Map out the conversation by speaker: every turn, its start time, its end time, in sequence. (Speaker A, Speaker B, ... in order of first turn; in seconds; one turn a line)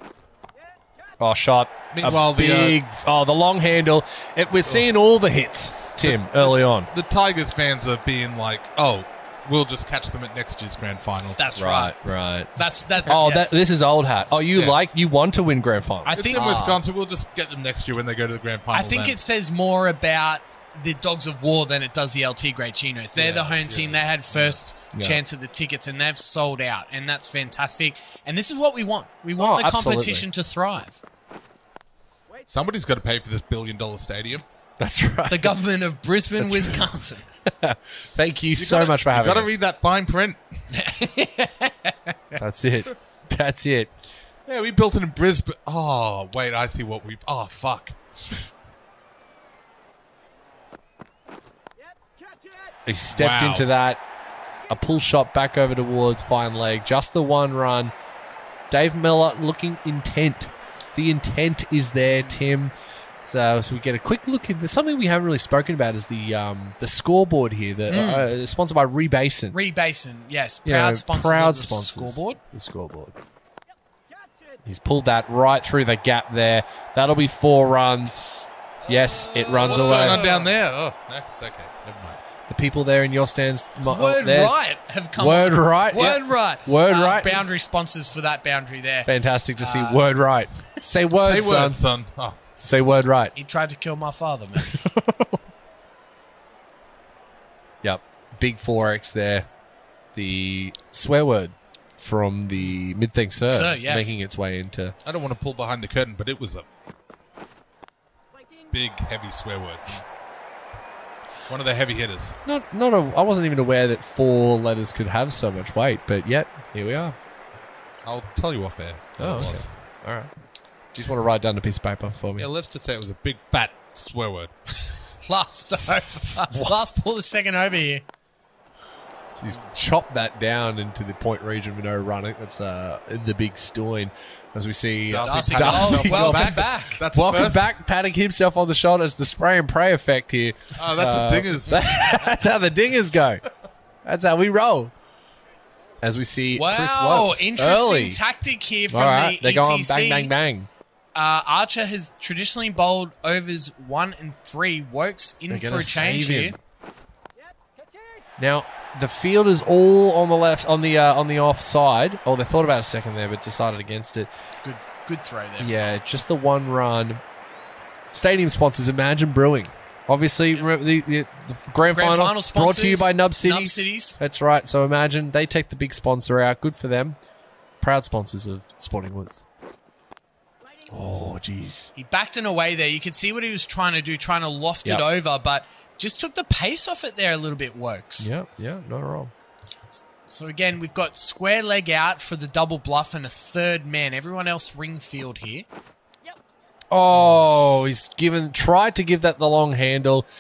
Speaker A: 1.2-6.9
Speaker B: 1.9-2.8
Speaker B: 6.0-11.5
Speaker C: 11.4-11.9
Speaker A: 11.6-12.5
Speaker C: 12.6-13.5
Speaker A: 13.1-16.4
Speaker B: 14.5-14.8
Speaker C: 16.1-16.8
Speaker B: 16.2-19.2
Speaker C: 18.7-31.0
Speaker B: 23.2-24.6
Speaker A: 24.9-25.2
Speaker A: 29.4-30.3
Speaker B: 32.5-34.5
Speaker A: 34.8-35.6
Speaker C: 35.3-37.3
Speaker A: 36.4-36.9
Speaker A: 37.5-39.5
Speaker B: 38.6-40.4
Speaker C: 40.7-42.1
Speaker A: 42.4-43.9
Speaker B: 44.5-48.0
Speaker A: 52.9-54.0
Speaker B: 53.1-53.7
Speaker A: 54.7-57.9
Speaker A: 58.7-62.7
Speaker A: 63.2-69.6
Speaker C: 67.9-68.3
Speaker C: 69.5-72.4
Speaker A: 70.7-73.2
Speaker A: 74.7-78.3
Speaker A: 78.9-80.2
Speaker C: 78.9-80.5
Speaker B: 79.6-82.2
Speaker A: 82.5-84.6
Speaker C: 83.8-90.1
Speaker A: 85.2-87.4
Speaker A: 89.0-91.8
Speaker B: 91.2-92.5
Speaker A: 92.6-93.3
Speaker C: 93.3-94.8
Speaker A: 94.6-95.4
Speaker A: 97.8-99.5
Speaker A: 100.1-105.0
Speaker C: 103.5-104.2
Speaker B: 105.0-106.7
Speaker B: 108.7-110.0
Speaker B: 111.5-112.4
Speaker A: 112.5-117.2
Speaker B: 118.0-119.7
Speaker A: 119.2-120.3
Speaker A: 120.9-122.5
Speaker B: 122.4-124.5
Speaker C: 125.2-128.0
Speaker A: 126.5-126.7
Speaker A: 129.3-143.4
Speaker B: 135.1-137.7
Speaker C: 135.2-137.0
Speaker B: 140.8-142.2
Speaker A: 144.0-144.9
Speaker A: 146.0-148.2
Speaker C: 146.6-150.3
Speaker A: 148.9-150.7
Speaker C: 151.2-156.6
Speaker A: 155.5-156.6
Speaker A: 158.4-164.3
Speaker C: 164.6-165.8
Speaker A: 165.6-167.2
Speaker A: 168.1-177.2
Speaker C: 171.9-174.2
Speaker A: 177.8-179.4
Speaker A: 180.9-181.9
Speaker C: 181.9-188.3
Speaker A: 188.2-189.3
Speaker C: 190.3-195.7
Speaker A: 196.9-200.3
Speaker C: 197.1-197.4